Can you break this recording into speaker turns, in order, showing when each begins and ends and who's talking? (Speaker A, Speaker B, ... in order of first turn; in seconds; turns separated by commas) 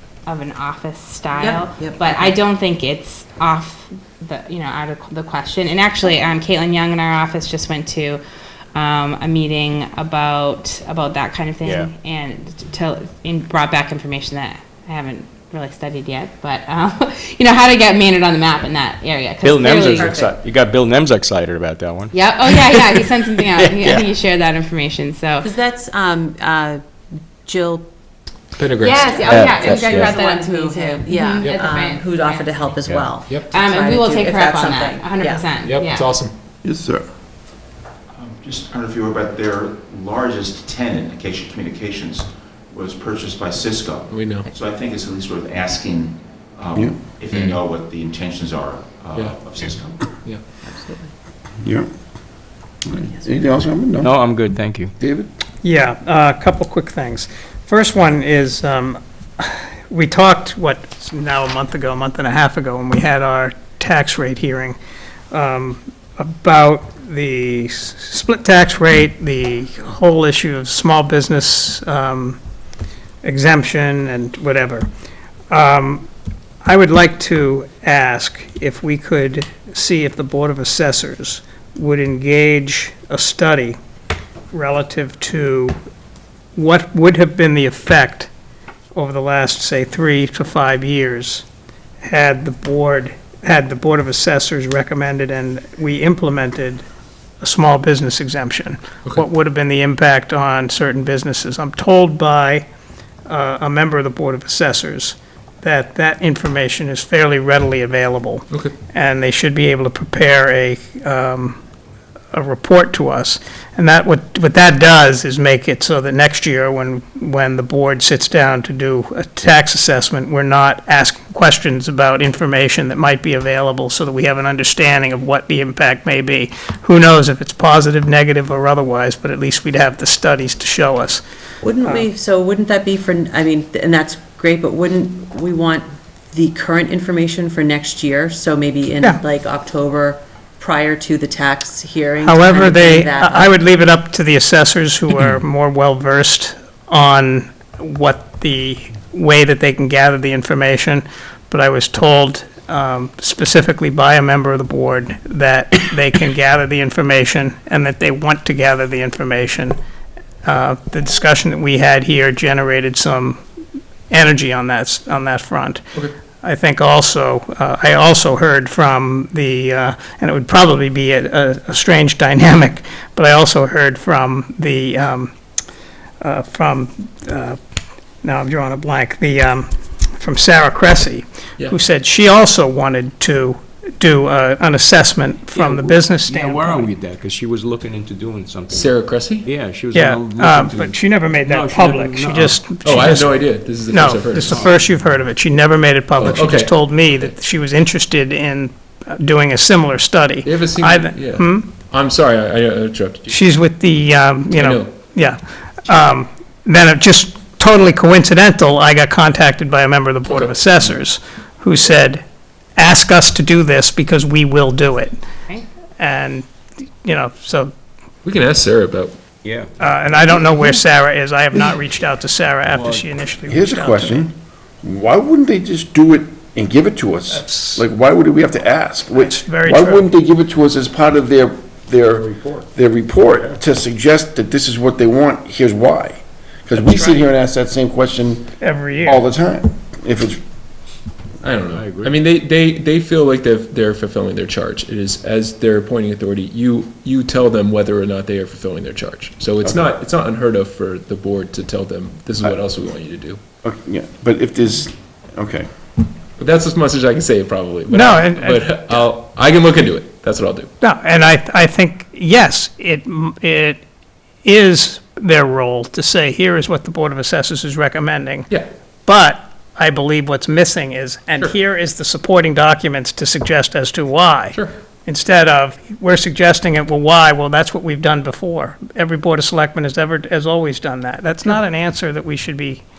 Speaker A: 0.2-8.2, Speaker B: 1.4-2.3, Speaker A: 8.7-20.3, Speaker C: 11.6-11.9, Speaker C: 19.4-22.7, Speaker B: 19.8-20.3, Speaker A: 22.1-25.5, Speaker C: 23.6-24.0, Speaker B: 25.4-27.9, Speaker D: 28.6-29.1, Speaker A: 28.8-32.7, Speaker B: 28.9-35.4, Speaker C: 29.3-30.1, Speaker A: 33.5-36.1, Speaker D: 35.6-36.3, Speaker E: 36.6-37.1, Speaker F: 38.1-50.2, Speaker D: 44.1-44.5, Speaker E: 51.6-51.9, Speaker E: 52.9-54.1, Speaker B: 53.1-53.6, Speaker C: 54.0-54.9, Speaker E: 55.0-55.3, Speaker G: 55.6-64.8, Speaker G: 65.3-72.4, Speaker G: 73.2-74.9, Speaker G: 75.5-76.1, Speaker G: 76.6-83.8, Speaker G: 84.5-85.8, Speaker G: 86.5-88.3, Speaker G: 88.9-91.5, Speaker G: 92.0-96.8, Speaker G: 97.4-102.7, Speaker G: 103.2-111.6, Speaker G: 112.3-131.2, Speaker B: 131.6-143.5, Speaker G: 142.3-159.8, Speaker G: 160.4-163.4, Speaker G: 164.1-165.8, Speaker G: 166.4-175.3, Speaker G: 176.2-177.6, Speaker G: 178.2-186.9, Speaker C: 185.5-188.9, Speaker D: 188.7-189.5, Speaker C: 189.4-193.3, Speaker G: 189.9-193.3, Speaker D: 192.8-194.6, Speaker G: 193.9-201.7, Speaker C: 194.2-194.8, Speaker D: 196.2-197.3, Speaker D: 200.4-203.3, Speaker G: 203.3-212.2, Speaker D: 204.5-204.9, Speaker D: 210.3-210.5, Speaker G: 212.8-215.2, Speaker G: 216.0-217.7, Speaker D: 218.2-219.1, Speaker C: 219.4-219.7, Speaker G: 219.8-224.2, Speaker C: 222.7-223.1, Speaker E: 223.5-240.4, Speaker G: 227.3-227.8, Speaker G: 229.2-230.1, Speaker C: 236.9-237.2, Speaker G: 238.6-239.2, Speaker D: 241.4-253.4, Speaker C: 241.7-242.1, Speaker E: 253.6-255.7, Speaker D: 256.4-260.7, Speaker G: 257.9-258.6, Speaker G: 260.8-263.8, Speaker G: 264.4-268.5, Speaker G: 269.1-282.8